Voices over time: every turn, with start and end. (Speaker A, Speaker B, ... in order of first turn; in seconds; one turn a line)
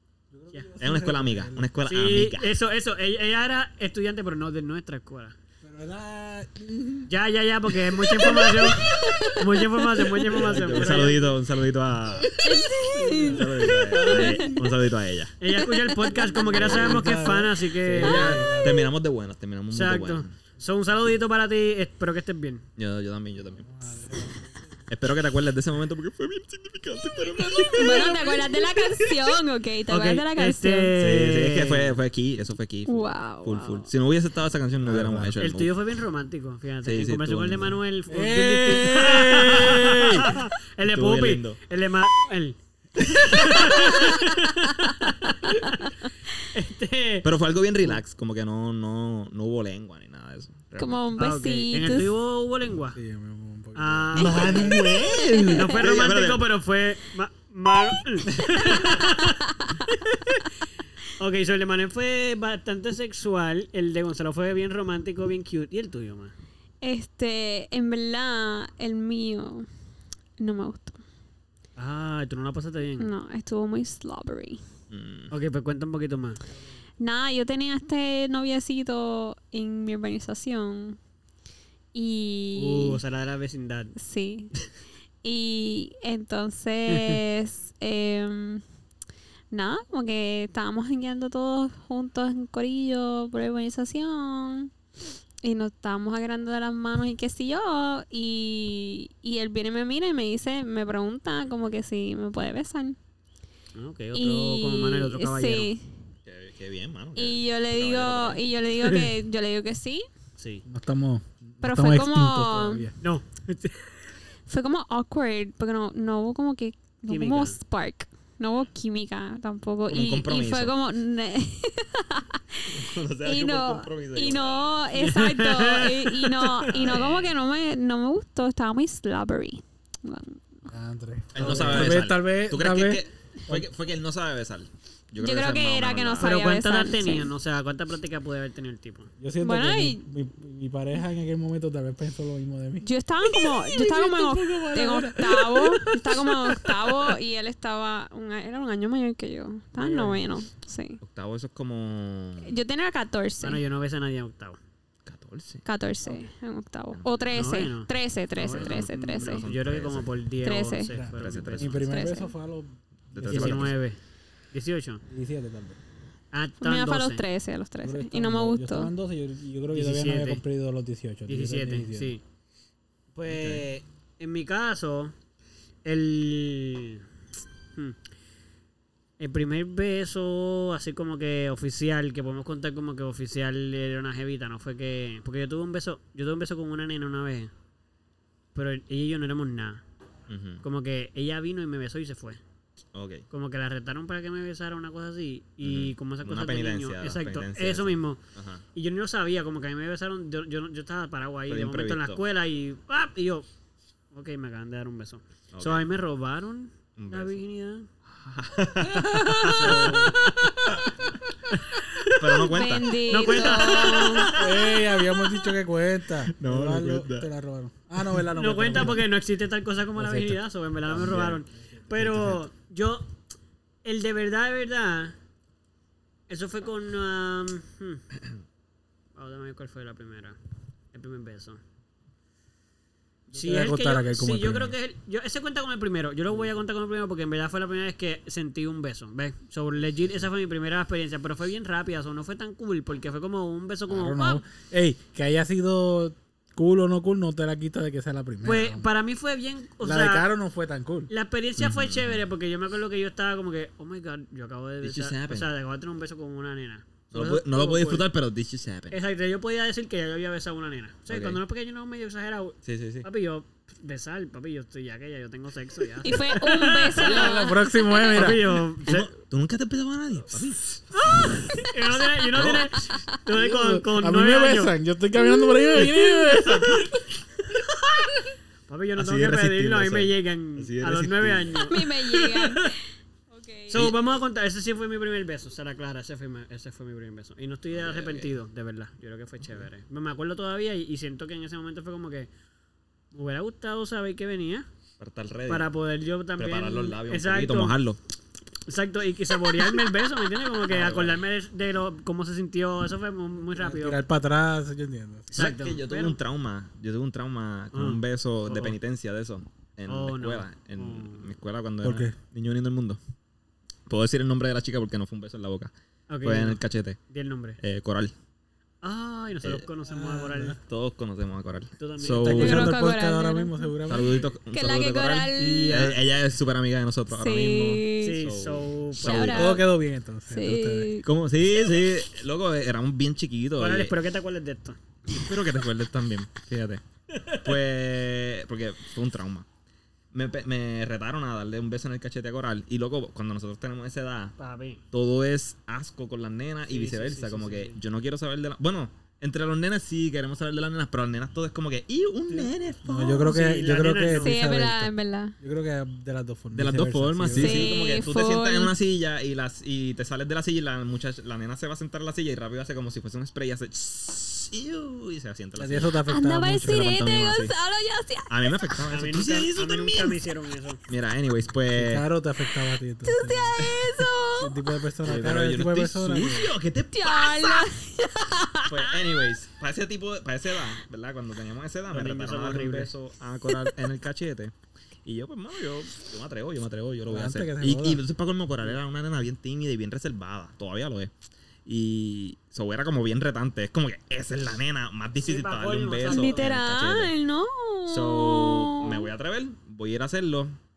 Speaker A: 0.3-1.7
Speaker B: 0.8-2.5
Speaker C: 1.8-5.3
Speaker A: 5.6-7.1
Speaker C: 7.1-11.2
Speaker B: 8.3-9.2
Speaker D: 8.3-9.4
Speaker B: 10.3-15.3
Speaker A: 10.5-11.0
Speaker D: 12.4-14.5
Speaker A: 12.8-14.7
Speaker C: 15.4-18.5
Speaker D: 15.5-16.5
Speaker A: 16.5-18.9
Speaker B: 16.5-17.1
Speaker B: 17.9-20.3
Speaker C: 19.7-22.6
Speaker B: 22.8-23.7
Speaker A: 23.6-24.7
Speaker B: 24.9-28.3
Speaker C: 27.6-28.5
Speaker D: 27.7-30.9
Speaker C: 29.9-32.0
Speaker B: 30.9-35.7
Speaker D: 32.9-33.9
Speaker A: 34.8-35.4
Speaker C: 35.4-42.5
Speaker B: 36.8-37.8
Speaker A: 38.1-40.4
Speaker B: 40.8-41.6
Speaker B: 43.0-43.7
Speaker C: 43.2-47.3
Speaker D: 43.8-44.2
Speaker B: 47.2-51.0
Speaker D: 50.8-52.1
Speaker C: 51.2-53.0
Speaker A: 52.9-54.8
Speaker C: 53.7-54.8
Speaker B: 54.1-56.4
Speaker D: 54.2-55.9
Speaker C: 55.5-60.5
Speaker B: 58.3-58.6
Speaker D: 58.6-59.8
Speaker C: 61.2-66.3
Speaker D: 66.8-69.7
Speaker D: 70.4-71.0
Speaker C: 71.8-73.1
Speaker D: 73.0-74.6
Speaker B: 74.9-75.3
Speaker C: 75.3-76.4
Speaker D: 77.0-81.0
Speaker D: 81.9-83.0
Speaker C: 82.5-83.9
Speaker D: 84.0-84.7
Speaker D: 85.2-88.6
Speaker C: 86.9-87.2
Speaker D: 89.5-94.7
Speaker D: 95.4-103.0
Speaker C: 103.7-105.7
Speaker D: 104.1-105.9
Speaker B: 106.2-108.4
Speaker D: 107.2-110.1
Speaker C: 110.4-110.6
Speaker A: 110.6-112.9
Speaker D: 111.6-112.9
Speaker C: 113.0-113.9
Speaker D: 114.5-130.7
Speaker C: 117.1-117.6
Speaker B: 119.9-120.7
Speaker B: 122.7-124.8
Speaker C: 124.9-126.8
Speaker B: 126.7-127.3
Speaker A: 130.7-133.7
Speaker B: 131.3-136.4
Speaker D: 135.2-137.3
Speaker C: 136.2-139.1
Speaker A: 139.2-146.8
Speaker D: 139.4-140.0
Speaker D: 142.8-151.0
Speaker C: 149.8-150.3
Speaker B: 151.0-152.6
Speaker D: 152.4-153.6
Speaker C: 153.4-154.6
Speaker B: 155.0-155.7
Speaker D: 155.6-159.4
Speaker B: 156.9-157.4
Speaker C: 157.3-161.8
Speaker B: 158.4-160.1
Speaker D: 160.4-160.9
Speaker A: 160.9-163.7
Speaker B: 161.1-161.8
Speaker D: 161.8-162.3
Speaker B: 163.1-163.8
Speaker C: 163.3-164.0
Speaker C: 164.5-165.0
Speaker A: 165.1-165.8
Speaker C: 166.3-167.2
Speaker D: 166.6-168.9
Speaker A: 167.8-172.2
Speaker C: 169.7-170.4
Speaker C: 171.3-172.2
Speaker C: 173.1-175.1
Speaker B: 173.3-173.6
Speaker C: 175.8-177.0
Speaker C: 179.2-187.5
Speaker C: 188.5-189.8
Speaker B: 190.3-190.6
Speaker C: 190.6-192.4
Speaker B: 192.9-193.2
Speaker C: 193.3-198.2
Speaker B: 195.6-198.6
Speaker C: 198.7-203.5
Speaker B: 201.5-202.2
Speaker C: 204.1-207.9
Speaker B: 205.5-205.9
Speaker B: 207.0-207.4
Speaker B: 208.1-210.7
Speaker C: 209.1-210.5
Speaker C: 211.5-212.4
Speaker B: 212.1-214.1
Speaker D: 212.4-214.3
Speaker C: 213.1-214.8
Speaker A: 214.3-219.0
Speaker B: 216.3-217.3
Speaker C: 218.3-223.1
Speaker A: 220.0-220.3
Speaker B: 220.9-221.4
Speaker A: 221.9-222.4
Speaker C: 223.8-225.1
Speaker C: 226.3-228.0
Speaker C: 229.2-230.3
Speaker C: 230.9-231.6
Speaker C: 233.3-244.4
Speaker A: 233.3-234.7
Speaker A: 243.9-248.8
Speaker C: 248.4-250.3
Speaker A: 249.8-251.1
Speaker C: 251.1-258.1
Speaker B: 251.6-252.2
Speaker B: 254.8-255.5
Speaker B: 257.1-259.0
Speaker C: 258.9-269.1
Speaker B: 261.1-261.4
Speaker B: 262.6-263.1
Speaker D: 266.0-267.6
Speaker A: 266.9-268.6
Speaker B: 268.8-271.0
Speaker C: 271.0-274.7
Speaker B: 272.3-272.8
Speaker A: 273.3-277.0
Speaker D: 275.2-276.0
Speaker C: 278.7-282.7
Speaker B: 278.9-281.7
Speaker D: 281.6-282.8
Speaker D: 283.3-283.9
Speaker C: 283.7-292.3
Speaker B: 283.7-284.0
Speaker B: 287.7-288.3
Speaker B: 289.4-289.7
Speaker C: 293.1-294.7
Speaker B: 295.0-295.7
Speaker C: 295.5-297.8
Speaker B: 296.4-298.0
Speaker C: 298.7-304.0
Speaker B: 300.7-301.2
Speaker A: 303.5-305.4
Speaker C: 305.3-306.2
Speaker B: 305.3-313.0
Speaker C: 307.7-308.8
Speaker C: 309.9-311.3
Speaker A: 311.8-312.1
Speaker B: 313.9-317.0
Speaker C: 316.1-317.6
Speaker B: 317.6-318.1
Speaker C: 318.8-320.6
Speaker A: 319.8-320.6
Speaker B: 320.6-322.8
Speaker C: 321.8-322.7
Speaker A: 322.2-324.2
Speaker D: 322.3-325.9
Speaker B: 323.9-329.6
Speaker C: 325.4-326.0
Speaker D: 327.1-328.3
Speaker C: 328.0-329.5
Speaker D: 329.0-329.6
Speaker A: 329.2-330.9
Speaker D: 330.3-331.1
Speaker B: 331.0-333.9
Speaker C: 333.6-334.8
Speaker B: 335.1-339.5
Speaker C: 337.1-337.4
Speaker B: 340.1-344.3
Speaker C: 344.4-344.8
Speaker B: 344.9-353.2
Speaker C: 346.7-347.8
Speaker A: 352.8-357.7
Speaker C: 353.2-354.4
Speaker D: 354.2-355.4
Speaker B: 356.5-366.0
Speaker D: 357.3-358.7
Speaker A: 365.6-367.0
Speaker D: 366.1-368.8
Speaker B: 366.6-367.5
Speaker B: 368.3-370.2
Speaker C: 368.9-370.8
Speaker B: 370.9-372.1
Speaker A: 371.7-373.6
Speaker D: 373.1-374.7
Speaker B: 373.6-374.1
Speaker A: 374.4-376.5
Speaker B: 375.0-377.7
Speaker D: 376.9-378.9
Speaker B: 378.6-384.5
Speaker C: 381.9-382.9
Speaker B: 385.0-391.1
Speaker A: 387.1-388.0
Speaker B: 391.6-397.1
Speaker C: 395.2-396.5
Speaker D: 396.0-399.1
Speaker B: 397.9-400.6